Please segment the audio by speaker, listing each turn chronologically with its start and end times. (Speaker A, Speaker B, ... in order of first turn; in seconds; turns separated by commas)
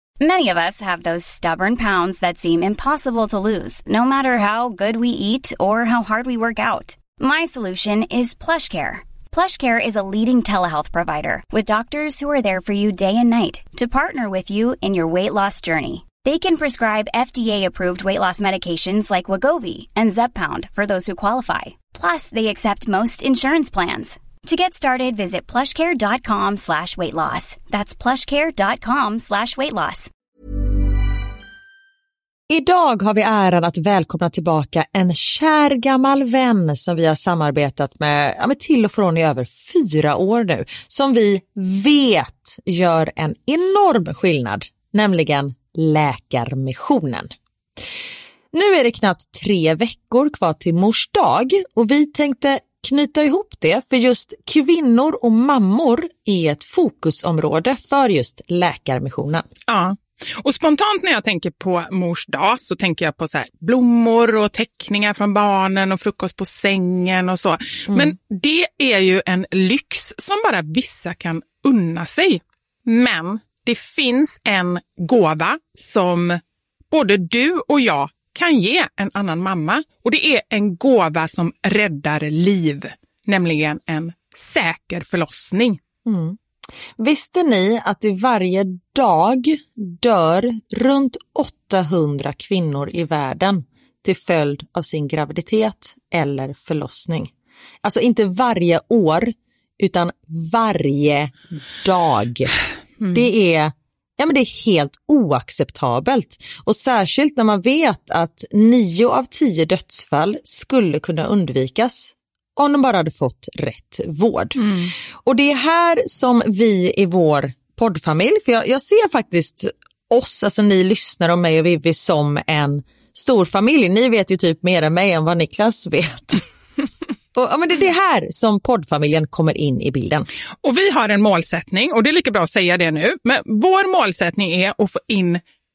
Speaker A: 0.2-30.1, Speaker B: 32.5-47.3, Speaker B: 48.5-59.5, Speaker C: 59.7-85.8, Speaker B: 86.0-86.4, Speaker B: 87.0-97.3, Speaker B: 97.8-102.5, Speaker B: 103.1-126.4, Speaker C: 114.6-114.9, Speaker B: 127.3-130.3, Speaker C: 130.6-135.4